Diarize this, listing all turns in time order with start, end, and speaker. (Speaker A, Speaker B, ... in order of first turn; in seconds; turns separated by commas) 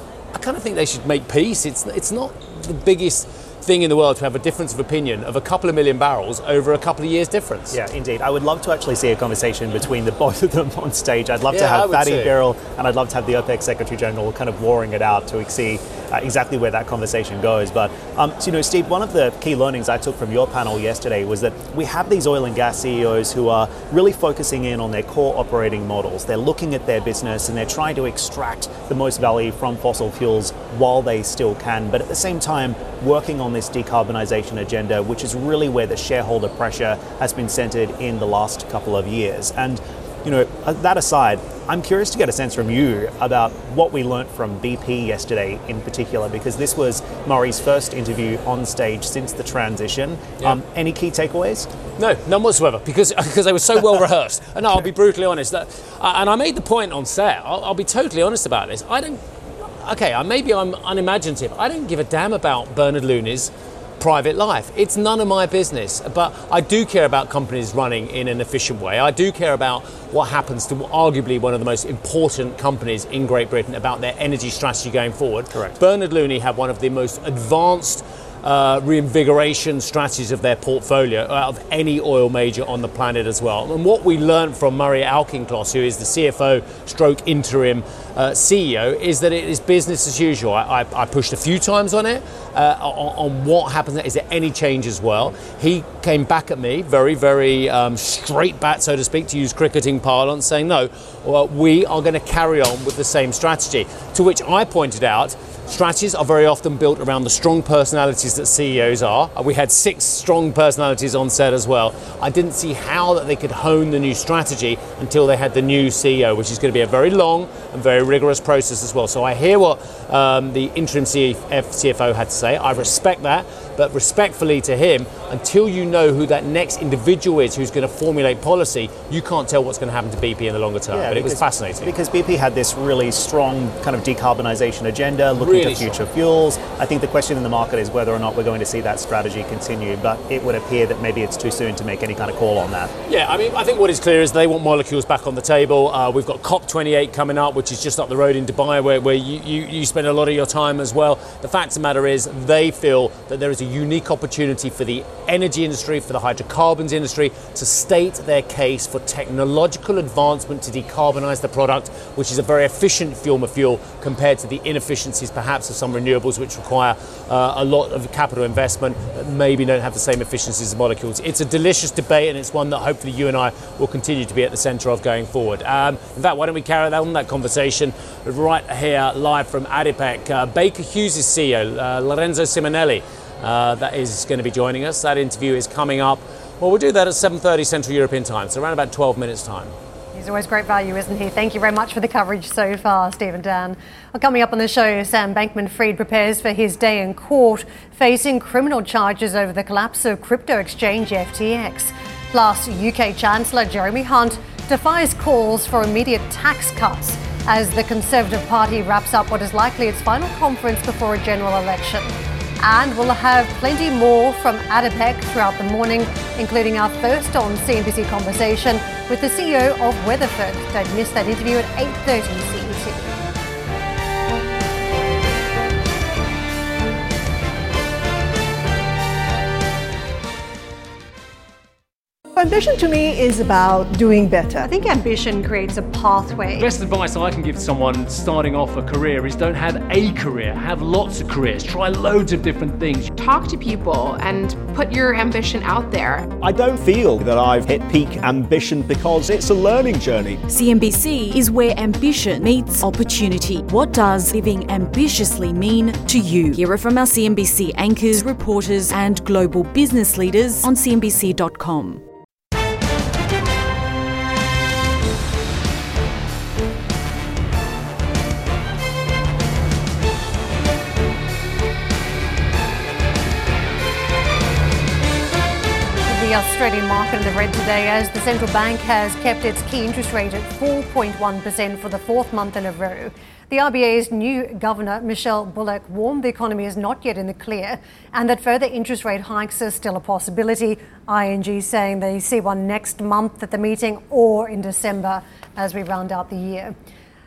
Speaker A: 0.3-7.8, Speaker B: 7.7-51.7, Speaker A: 11.5-12.3, Speaker A: 52.0-59.2, Speaker A: 59.8-131.9, Speaker B: 75.5-75.8, Speaker B: 130.9-142.9, Speaker A: 135.4-136.0, Speaker A: 143.1-189.7, Speaker C: 190.1-223.1, Speaker D: 232.3-234.7, Speaker C: 234.6-236.7, Speaker A: 236.6-243.1, Speaker E: 243.2-246.3, Speaker F: 246.4-250.4, Speaker G: 250.5-262.0, Speaker C: 276.1-296.7